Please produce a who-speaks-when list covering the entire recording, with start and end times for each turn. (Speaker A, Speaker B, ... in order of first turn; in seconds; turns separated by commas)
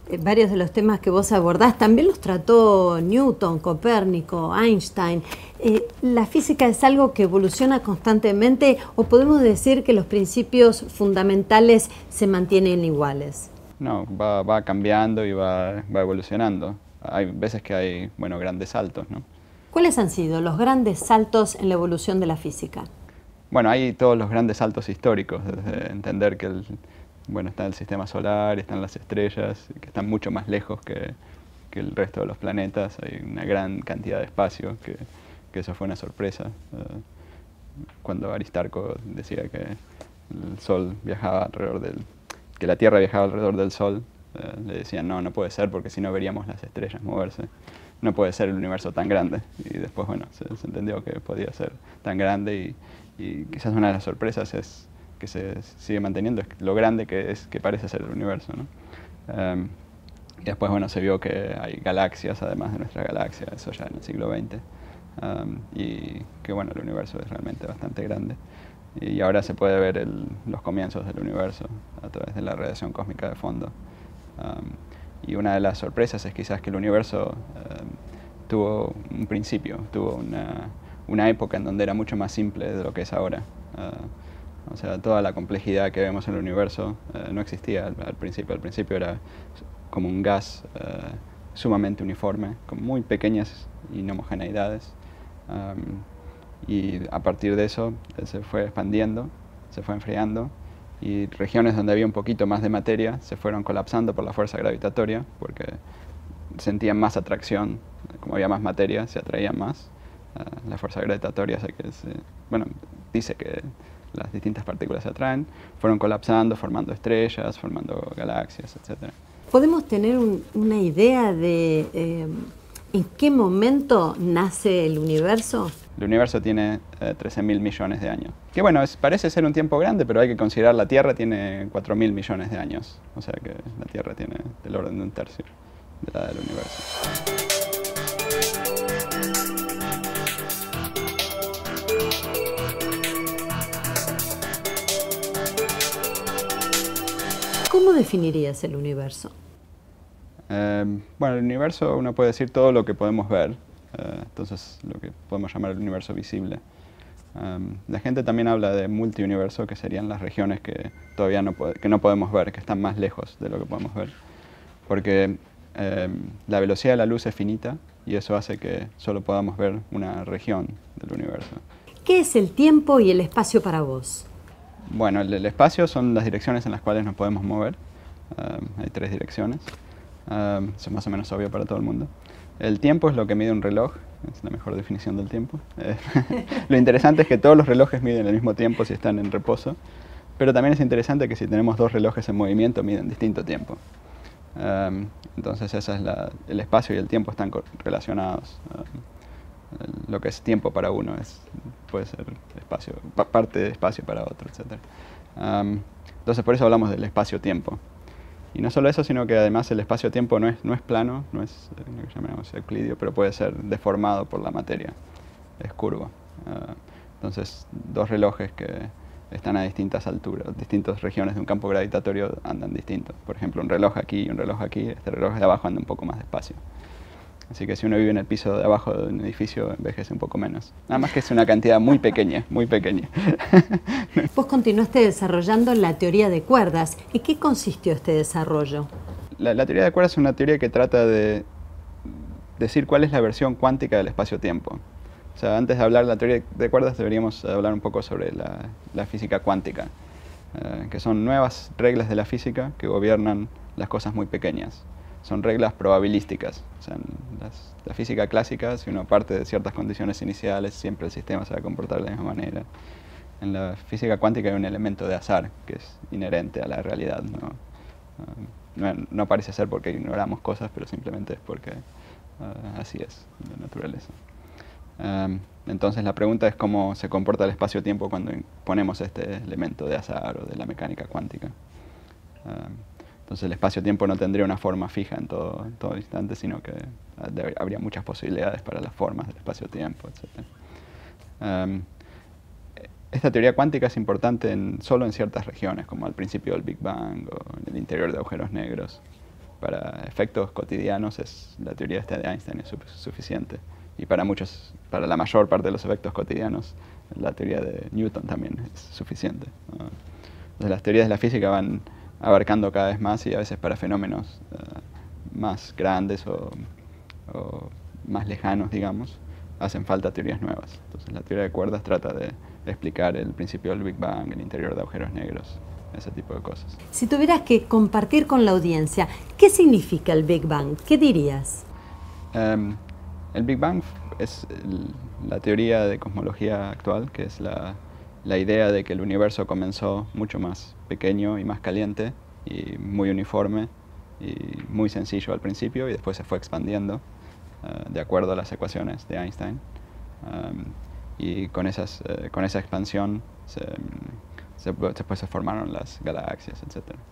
Speaker A: 0.1-13.5, Speaker B: 13.8-19.2, Speaker A: 19.7-22.9, Speaker B: 23.5-31.2, Speaker B: 31.7-37.0, Speaker B: 38.0-47.5, Speaker B: 48.0-58.7, Speaker B: 59.3-59.8, Speaker B: 60.4-64.6, Speaker B: 65.2-68.4, Speaker B: 69.0-73.7, Speaker B: 74.4-84.1, Speaker B: 84.7-89.2, Speaker B: 89.9-95.0, Speaker B: 95.5-96.1, Speaker B: 96.6-105.8, Speaker B: 106.5-119.2, Speaker A: 119.5-125.8, Speaker B: 126.0-136.9, Speaker A: 147.7-149.3, Speaker B: 150.5-156.6, Speaker B: 157.3-164.1, Speaker B: 164.9-171.6, Speaker A: 172.1-174.3, Speaker B: 174.9-177.8, Speaker B: 178.3-179.7, Speaker B: 180.3-189.8, Speaker B: 190.4-193.8, Speaker B: 194.6-199.0, Speaker B: 199.7-207.8, Speaker B: 208.5-215.0, Speaker B: 215.6-226.6, Speaker B: 227.5-234.3, Speaker A: 234.3-238.9, Speaker B: 239.4-241.5, Speaker B: 242.1-244.8, Speaker B: 245.4-249.9, Speaker B: 250.5-262.7, Speaker B: 263.4-267.6, Speaker B: 268.2-271.8, Speaker B: 272.4-274.2, Speaker B: 275.0-281.5, Speaker B: 282.4-290.5, Speaker B: 291.4-291.9, Speaker B: 293.1-299.0, Speaker B: 299.6-309.9, Speaker B: 310.6-316.7, Speaker B: 317.3-326.8, Speaker A: 326.9-331.6, Speaker B: 332.3-332.8, Speaker B: 333.3-347.0, Speaker B: 347.6-349.6, Speaker B: 350.2-357.0